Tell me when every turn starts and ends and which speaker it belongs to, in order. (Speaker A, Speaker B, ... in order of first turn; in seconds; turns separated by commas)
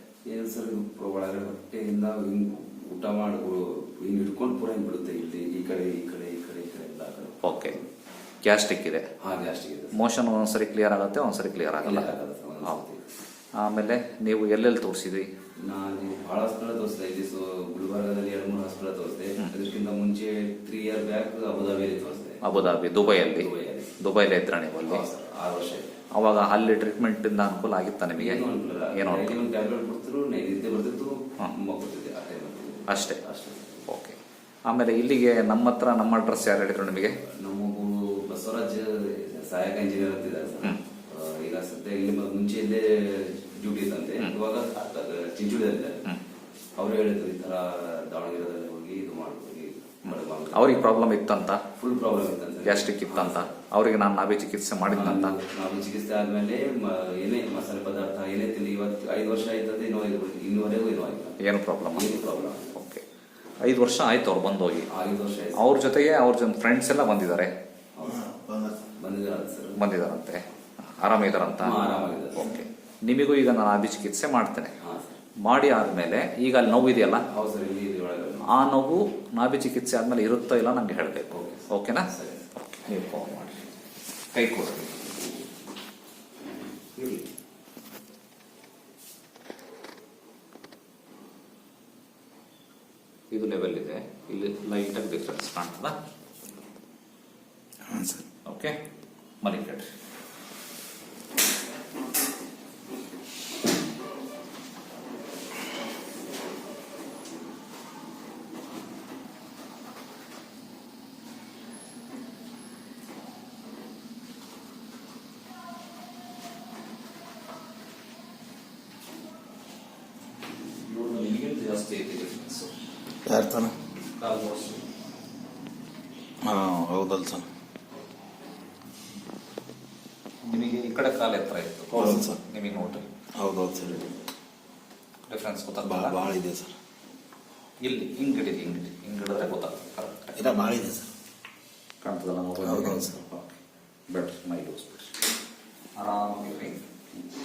Speaker A: 0.2-7.8, Speaker B: 7.4-7.8, Speaker B: 8.4-9.1, Speaker A: 9.2-10.0, Speaker B: 9.9-12.1, Speaker A: 11.8-13.0, Speaker B: 13.6-15.3, Speaker A: 15.6-22.4, Speaker B: 22.4-25.0, Speaker A: 23.0-24.0, Speaker A: 24.8-25.9, Speaker B: 26.1-29.4, Speaker A: 28.2-33.9, Speaker B: 32.9-33.2, Speaker B: 33.9-37.2, Speaker A: 37.4-46.0, Speaker A: 46.8-50.8, Speaker B: 50.0-51.6, Speaker A: 51.7-53.5, Speaker B: 52.6-55.4, Speaker A: 54.9-61.4, Speaker B: 61.4-63.0, Speaker A: 61.9-62.7, Speaker B: 63.6-64.9, Speaker A: 64.9-65.6, Speaker B: 65.5-67.5, Speaker A: 68.0-68.3, Speaker C: 68.0-68.8, Speaker A: 69.0-69.8, Speaker B: 69.8-74.7, Speaker A: 71.6-72.5, Speaker A: 74.8-75.2, Speaker B: 75.4-77.2, Speaker A: 77.3-78.5, Speaker B: 78.4-82.1, Speaker A: 81.3-82.4, Speaker B: 82.7-83.6, Speaker B: 84.3-85.1, Speaker B: 87.0-87.2, Speaker B: 93.3-96.0, Speaker C: 97.8-98.2, Speaker B: 98.4-98.8, Speaker B: 99.4-99.9, Speaker B: 120.8-122.7, Speaker C: 123.2-123.7, Speaker B: 124.1-124.8, Speaker C: 126.4-127.5, Speaker B: 130.4-133.1, Speaker A: 131.9-132.2, Speaker C: 131.9-132.4, Speaker C: 133.3-134.1, Speaker B: 135.3-136.2, Speaker C: 135.8-136.7, Speaker B: 137.8-140.6, Speaker C: 140.3-141.1, Speaker B: 142.0-145.2, Speaker C: 142.6-143.1, Speaker B: 146.0-146.8